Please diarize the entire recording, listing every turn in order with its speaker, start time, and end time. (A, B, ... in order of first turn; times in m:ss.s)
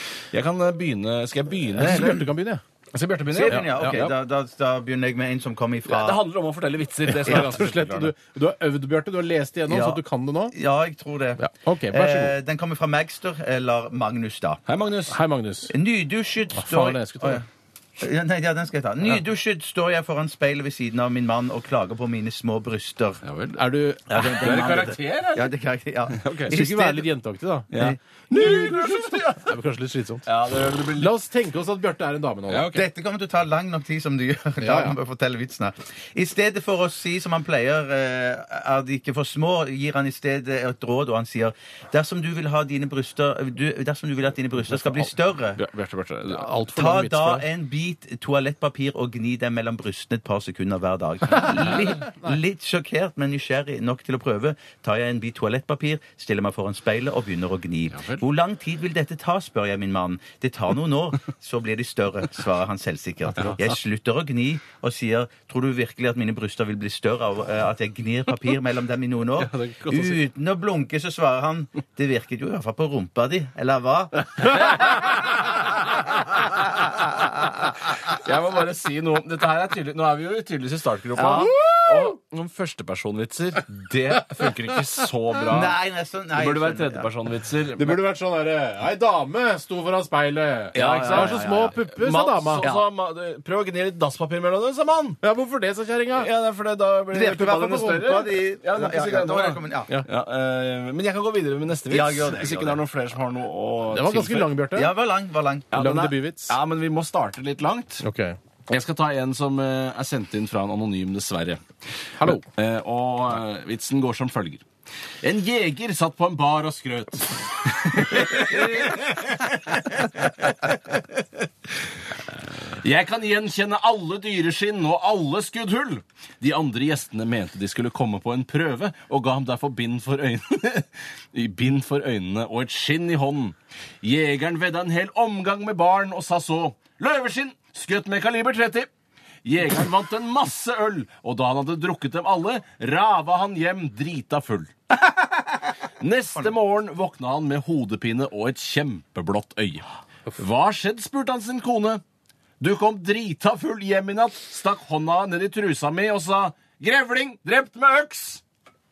0:00.3-0:02.3 A
0:01.7-0:02.6 B
0:03.0-0:04.2 A
0:03.3-0:06.2 C
0:03.4-0:04.0 B
0:05.9-0:08.1 A
0:07.1-0:10.6 B
0:09.7-0:14.6 C
0:11.4-0:12.4 B
0:14.7-0:15.2 A
0:15.1-0:15.8 B
0:15.7-0:17.4 C
0:16.5-0:17.4 B
0:18.0-0:23.2 C
0:23.2-0:23.6 A
0:23.6-0:24.9 B
0:24.1-0:27.1 C
0:24.4-0:25.5 A
0:26.1-0:26.6 A
0:26.5-0:27.7 B
0:27.7-0:29.5 A
0:27.7-0:28.0 C
0:28.3-0:30.3 B
0:30.3-0:31.1 A
0:31.0-0:32.7 B
0:32.5-0:32.9 A
0:32.7-0:45.6 C
0:34.6-0:35.0 B
0:45.6-0:46.6 A
0:46.3-0:47.5 B
0:46.7-1:14.5 C
0:57.9-0:58.2 A
1:09.4-1:10.2 A
1:14.4-1:15.1 A
1:16.2-1:25.8 A
1:21.2-1:21.6 C
1:21.5-1:21.9 B
1:25.5-1:27.1 C
1:26.3-1:28.0 A
1:27.8-1:32.7 B
1:30.7-1:35.2 A
1:30.8-1:31.8 C
1:32.6-1:32.9 C
1:35.2-1:36.3 B
1:36.2-1:44.5 A
1:37.1-1:39.9 C
1:41.9-1:42.8 C
1:43.9-1:44.9 B
1:44.8-1:45.7 C
1:45.7-1:48.0 A
1:45.7-1:46.6 B
1:48.0-1:48.4 B
1:48.7-1:51.6 A
1:52.2-1:52.5 B
1:52.2-1:54.6 A
1:55.2-2:01.2 A
2:02.7-2:18.9 A
2:19.4-2:24.7 A
2:26.0-2:32.0 A
2:32.6-2:38.4 A